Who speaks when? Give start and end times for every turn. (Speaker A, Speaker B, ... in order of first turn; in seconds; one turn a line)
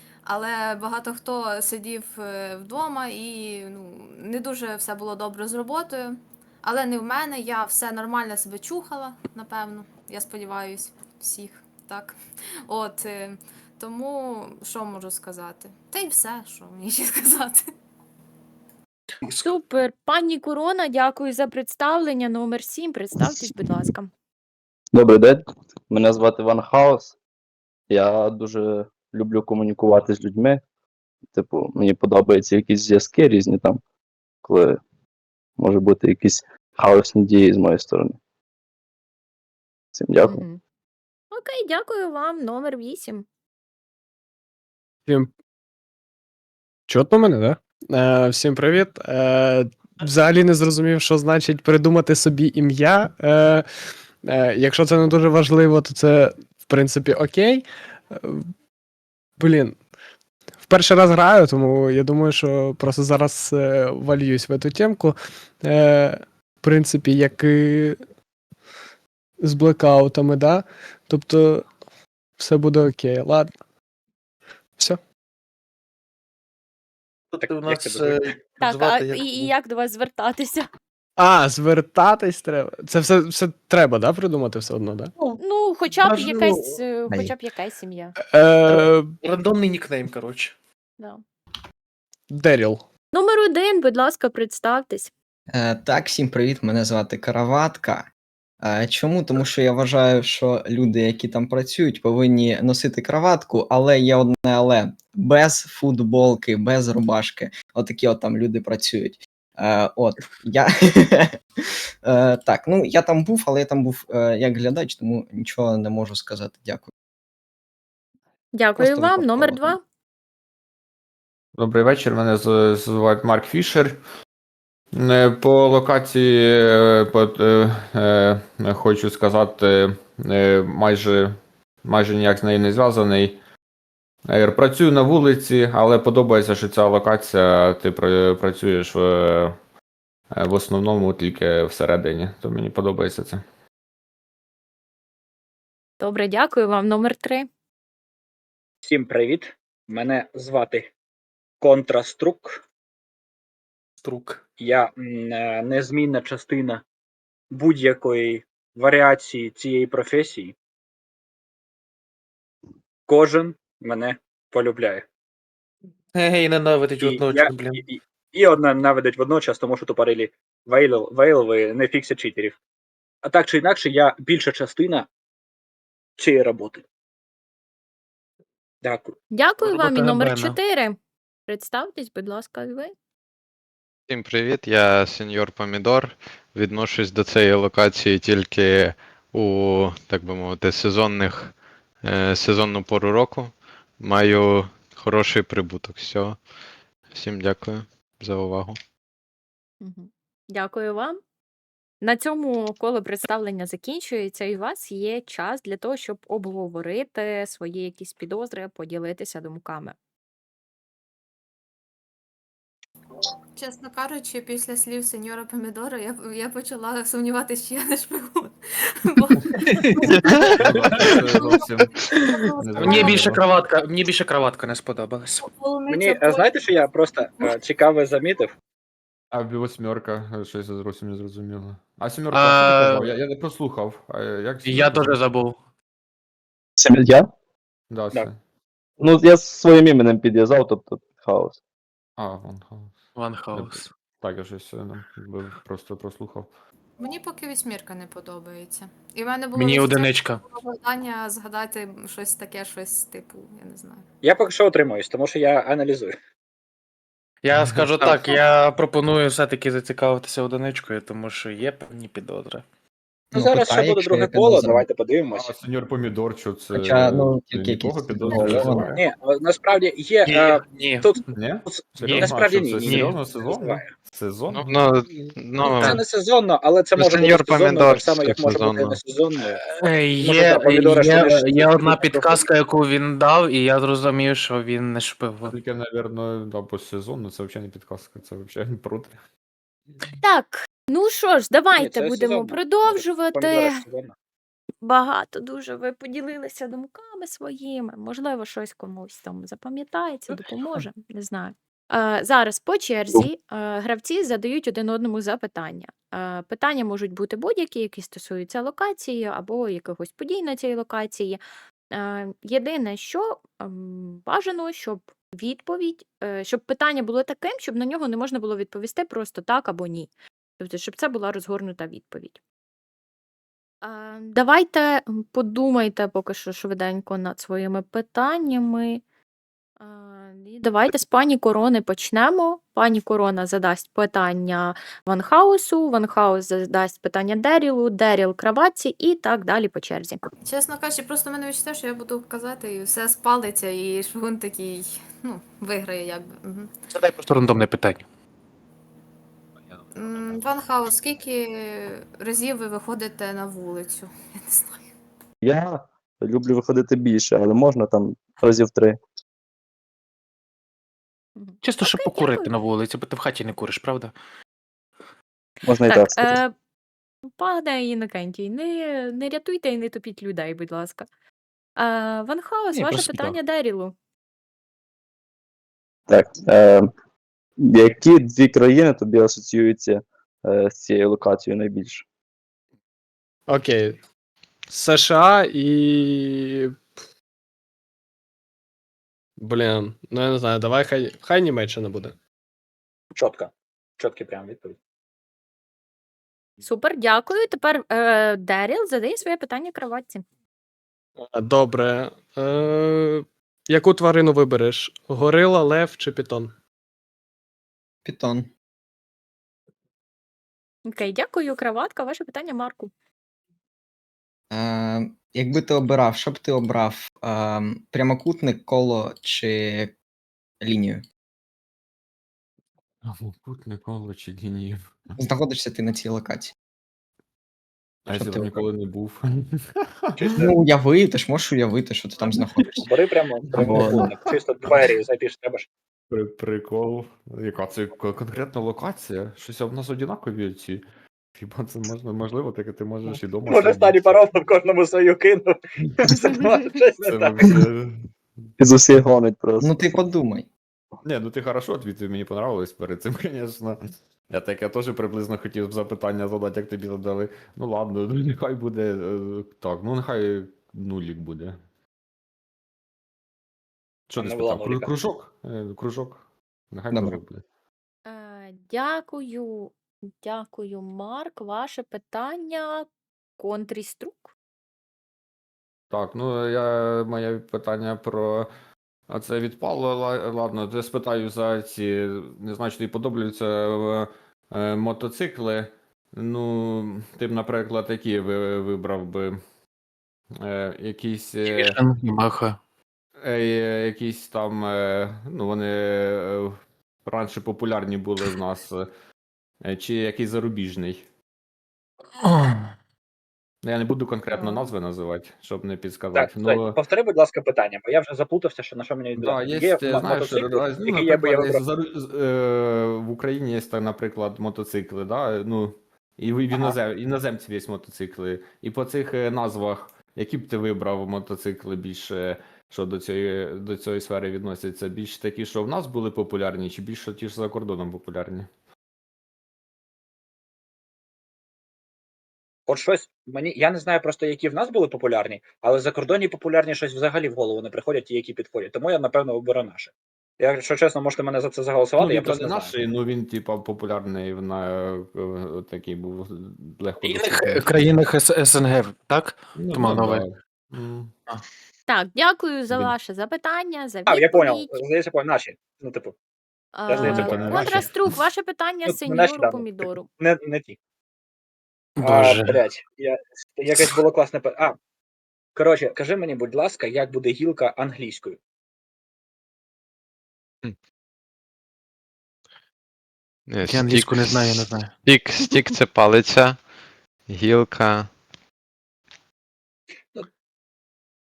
Speaker A: 0.2-17.6
Speaker B: 19.2-19.5
Speaker C: 19.4-24.1
Speaker D: 24.9-27.1
Speaker D: 27.9-30.6
Speaker D: 31.3-33.8
Speaker D: 34.4-34.8
Speaker D: 35.6-38.2
Speaker D: 39.9-40.4
Speaker C: 40.2-40.6
Speaker C: 41.3-43.2
Speaker E: 46.9-53.6
Speaker E: 54.2-58.5
Speaker E: 59.4-59.8
Speaker E: 60.6-68.0
Speaker E: 69.4-71.7
Speaker E: 72.4-73.6
Speaker F: 77.3-78.3
Speaker B: 77.4-79.5
Speaker C: 78.6-80.7
Speaker E: 81.2-85.1
Speaker C: 85.4-88.2
Speaker B: 86.0-86.8
Speaker E: 88.3-89.1
Speaker B: 88.7-90.5
Speaker E: 92.3-92.8
Speaker C: 93.1-95.1
Speaker G: 95.5-98.1
Speaker G: 98.6-111.4
Speaker G: 112.0-116.9
Speaker C: 118.5-119.8
Speaker G: 118.8-119.8
Speaker H: 121.5-124.0
Speaker H: 124.9-133.4
Speaker H: 134.3-139.6
Speaker H: 140.3-143.4
Speaker C: 146.0-147.5
Speaker F: 148.8-150.9
Speaker F: 151.6-152.6
Speaker B: 154.0-154.4
Speaker F: 154.6-156.8
Speaker F: 157.5-160.5
Speaker F: 163.1-165.0
Speaker B: 166.1-167.8
Speaker F: 167.0-172.6
Speaker F: 173.2-175.1
Speaker F: 176.2-176.8
Speaker F: 178.8-179.1
Speaker C: 179.3-182.9
Speaker B: 179.6-180.6
Speaker I: 184.1-196.4
Speaker I: 197.1-198.8
Speaker C: 199.8-201.2
Speaker C: 202.0-209.9
Speaker A: 213.6-223.3
Speaker B: 219.6-221.5
Speaker H: 220.5-221.9
Speaker B: 222.2-225.5
Speaker H: 222.6-223.4
Speaker A: 225.4-226.8
Speaker F: 225.9-228.5
Speaker H: 229.3-235.2
Speaker B: 232.3-233.1
Speaker B: 234.6-235.6
Speaker D: 236.8-237.3
Speaker H: 237.9-238.4
Speaker D: 239.0-241.6
Speaker H: 242.2-242.9
Speaker B: 243.2-243.9
Speaker H: 243.5-246.5
Speaker A: 247.0-254.1
Speaker B: 249.5-250.4
Speaker F: 254.2-256.1
Speaker B: 257.4-262.6
Speaker H: 257.5-258.1
Speaker G: 263.3-264.8
Speaker F: 263.3-265.5
Speaker H: 265.3-269.0
Speaker G: 266.7-269.0
Speaker D: 268.3-268.6
Speaker F: 268.9-273.9
Speaker B: 270.2-271.1
Speaker H: 271.3-275.3
Speaker B: 272.0-273.2
Speaker I: 274.5-276.0
Speaker F: 275.6-279.6
Speaker I: 277.0-279.0
Speaker B: 279.7-285.5
Speaker F: 280.2-282.4
Speaker H: 285.5-289.2
Speaker C: 290.2-293.8
Speaker F: 291.8-294.1
Speaker C: 294.8-311.4
Speaker B: 300.3-300.9
Speaker C: 311.9-322.4
Speaker C: 323.8-329.0
Speaker C: 329.8-340.2
Speaker A: 340.4-346.7
Speaker B: 346.9-348.0
Speaker A: 349.9-354.9
Speaker D: 355.4-359.0
Speaker C: 361.4-362.5
Speaker B: 361.6-364.1
Speaker D: 365.6-366.4
Speaker C: 365.9-366.5
Speaker C: 367.2-371.1
Speaker C: 371.8-373.9
Speaker B: 372.7-373.4
Speaker D: 376.1-376.9
Speaker D: 377.6-382.0
Speaker E: 383.5-384.0
Speaker E: 384.7-386.8
Speaker E: 389.4-392.1
Speaker F: 393.1-394.8
Speaker C: 396.6-400.2
Speaker E: 401.2-406.5
Speaker G: 408.0-408.5
Speaker C: 410.9-412.9
Speaker G: 414.5-419.9
Speaker G: 420.6-421.0
Speaker H: 423.0-424.9
Speaker G: 425.2-426.5
Speaker H: 428.0-430.5
Speaker G: 428.1-428.7
Speaker F: 430.2-430.5
Speaker G: 430.4-432.9
Speaker F: 432.8-435.7
Speaker H: 433.5-434.3
Speaker G: 433.6-434.1
Speaker H: 436.1-440.8
Speaker H: 441.3-444.2
Speaker F: 443.4-447.6
Speaker H: 447.0-448.1
Speaker D: 448.6-449.8
Speaker G: 449.6-450.5
Speaker H: 451.0-453.8
Speaker H: 454.3-461.6
Speaker H: 464.1-467.4
Speaker F: 464.2-464.9
Speaker G: 466.9-467.2
Speaker C: 468.1-472.9
Speaker C: 473.4-474.3
Speaker H: 475.9-478.5
Speaker H: 479.1-489.4
Speaker H: 490.4-491.8
Speaker B: 491.5-492.6
Speaker H: 493.2-498.9
Speaker H: 499.6-501.1
Speaker B: 502.2-502.7
Speaker H: 503.6-506.8
Speaker F: 506.1-511.6
Speaker H: 509.2-528.5
Speaker F: 532.7-542.7
Speaker H: 542.0-547.9
Speaker B: 547.0-550.2
Speaker H: 549.5-551.1
Speaker C: 551.9-554.8
Speaker F: 554.1-556.1
Speaker C: 556.7-560.1
Speaker F: 556.9-557.8
Speaker H: 557.0-557.9
Speaker B: 557.0-557.2
Speaker F: 558.9-560.8
Speaker B: 562.0-562.6
Speaker F: 562.0-564.8
Speaker F: 565.5-568.4
Speaker I: 573.5-576.6
Speaker B: 573.6-574.9
Speaker I: 577.3-578.1